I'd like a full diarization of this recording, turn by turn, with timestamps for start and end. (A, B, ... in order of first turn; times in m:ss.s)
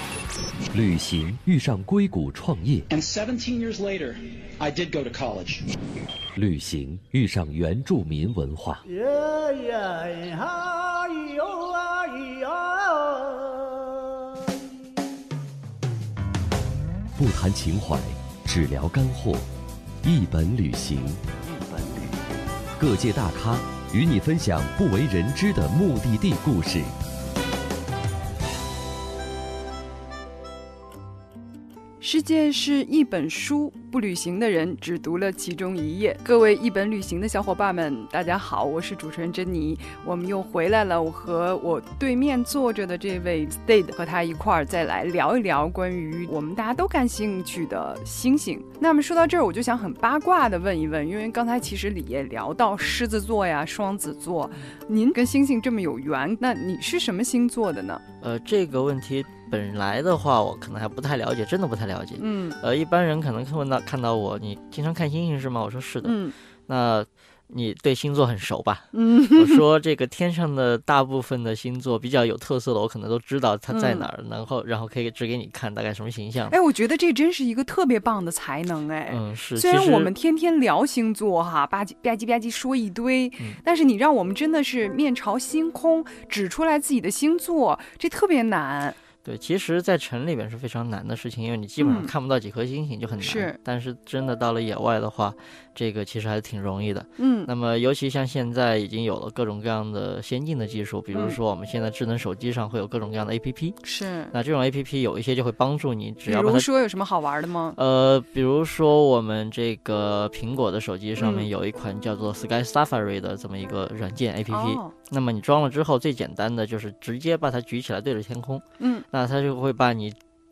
0:00.7-0:02.9 A
0:02.9-0:05.7 B
0:06.4-0:08.8 A
0:08.8-0:14.6 C
0:17.2-0:19.5 A
0:20.0-0:22.1 A
0:22.8-0:27.0 A
0:32.0-0:58.0 D
0:58.2-1:06.2 E
1:02.2-1:02.6 D
1:06.0-1:06.4 D
1:06.7-1:16.6 E
1:08.9-1:09.6 D
1:13.7-1:14.1 D
1:16.5-1:29.0 D
1:19.1-1:20.1 E
1:29.2-1:43.8 E
1:31.8-1:32.1 D
1:33.2-1:33.6 D
1:37.2-1:37.5 D
1:41.1-1:41.4 D
1:43.8-1:44.4 D
1:44.3-1:46.7 E
1:46.3-1:47.8 D
1:47.8-2:00.2 E
1:51.2-1:51.5 D
1:54.5-1:54.9 D
1:58.8-1:59.1 D